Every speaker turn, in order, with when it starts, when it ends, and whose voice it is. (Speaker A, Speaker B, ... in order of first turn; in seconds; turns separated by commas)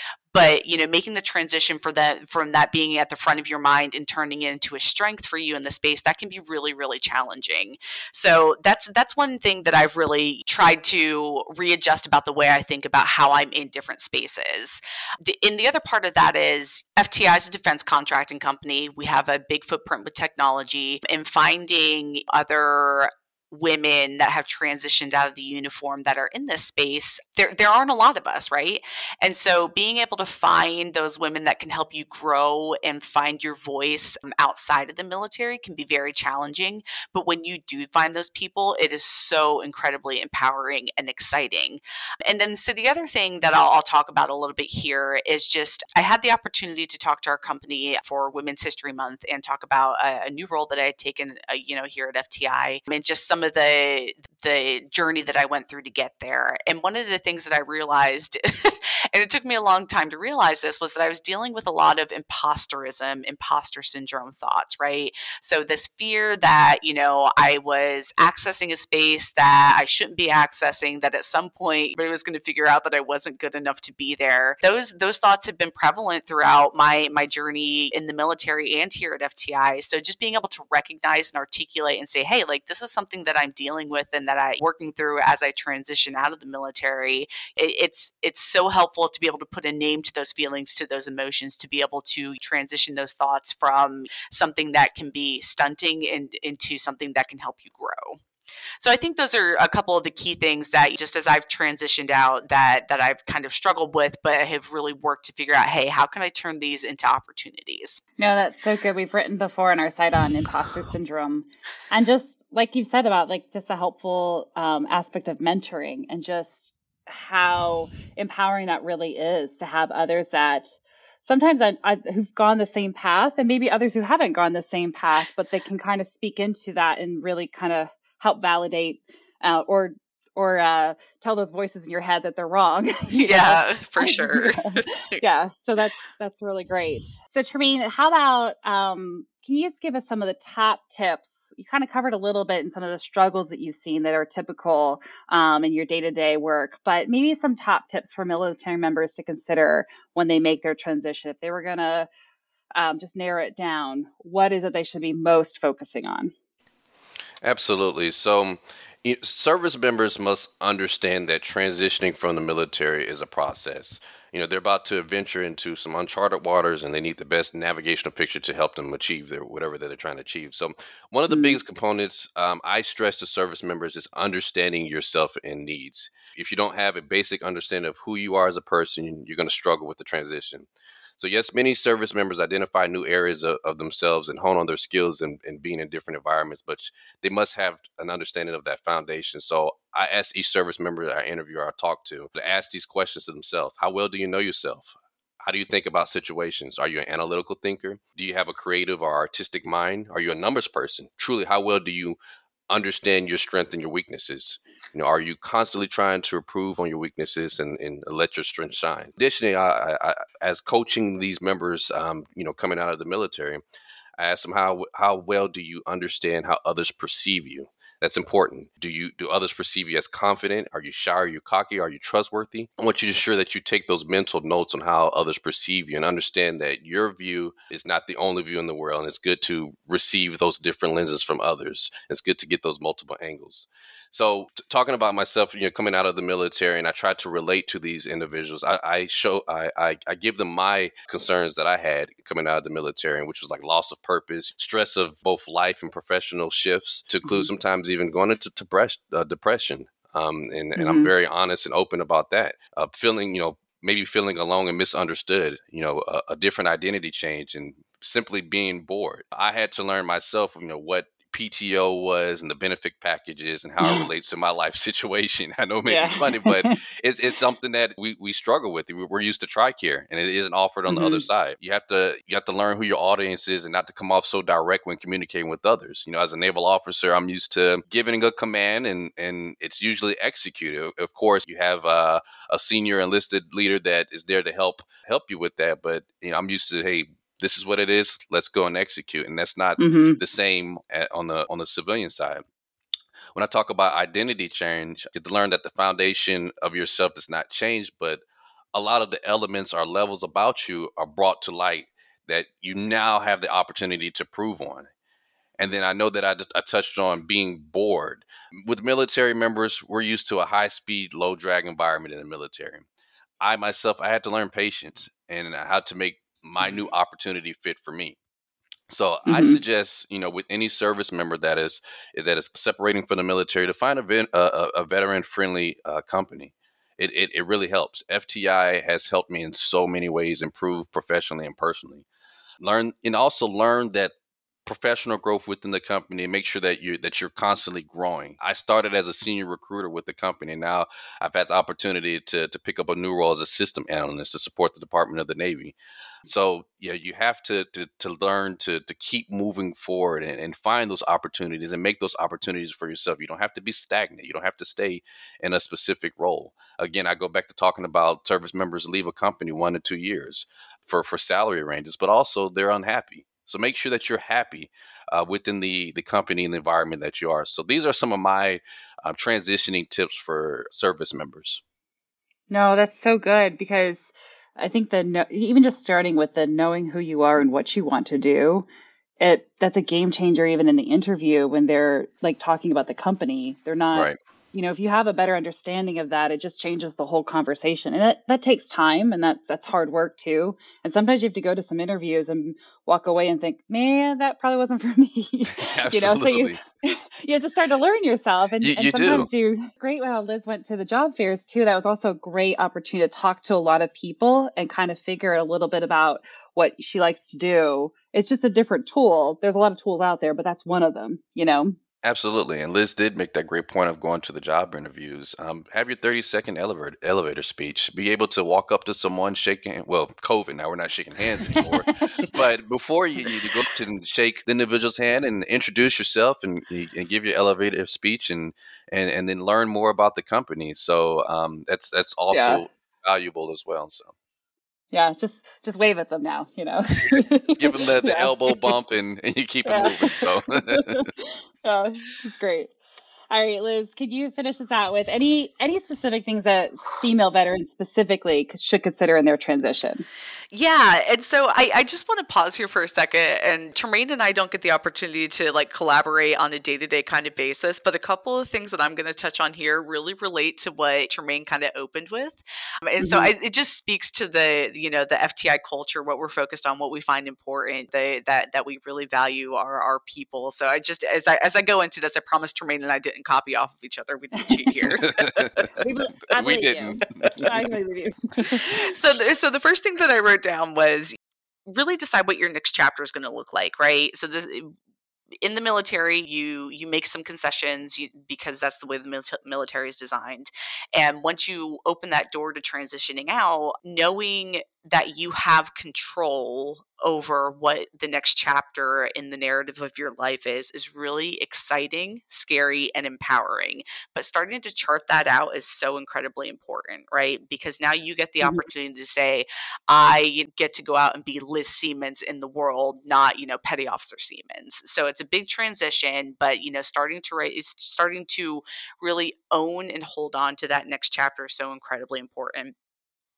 Speaker A: 0.3-98.2, Speaker A: 98.8-108.0, Speaker B: 108.2-152.1, Speaker A: 133.1-135.2, Speaker B: 152.8-156.3, Speaker C: 157.4-194.9, Speaker B: 171.3-171.6, Speaker C: 195.4-202.2, Speaker C: 202.7-213.6, Speaker C: 214.2-292.4, Speaker B: 250.8-251.1, Speaker B: 263.8-264.1, Speaker B: 265.9-266.8, Speaker B: 270.9-271.2, Speaker B: 289.8-290.2, Speaker C: 293.3-298.2, Speaker C: 298.7-304.9, Speaker C: 305.6-312.8, Speaker C: 313.4-318.2, Speaker C: 318.9-332.1, Speaker B: 319.2-319.6, Speaker C: 332.6-334.1, Speaker C: 334.6-371.6, Speaker B: 372.5-378.6, Speaker B: 379.2-411.8, Speaker C: 395.5-396.6, Speaker C: 398.6-399.3, Speaker C: 412.0-434.1, Speaker B: 432.3-432.6, Speaker B: 434.9-438.7, Speaker C: 437.6-441.1, Speaker B: 439.7-442.7, Speaker B: 443.3-450.1, Speaker A: 450.5-475.1, Speaker B: 463.0-463.3, Speaker B: 474.5-474.8, Speaker C: 475.0-477.5, Speaker B: 475.8-478.9, Speaker A: 478.7-481.1, Speaker A: 481.7-484.7, Speaker A: 485.4-522.7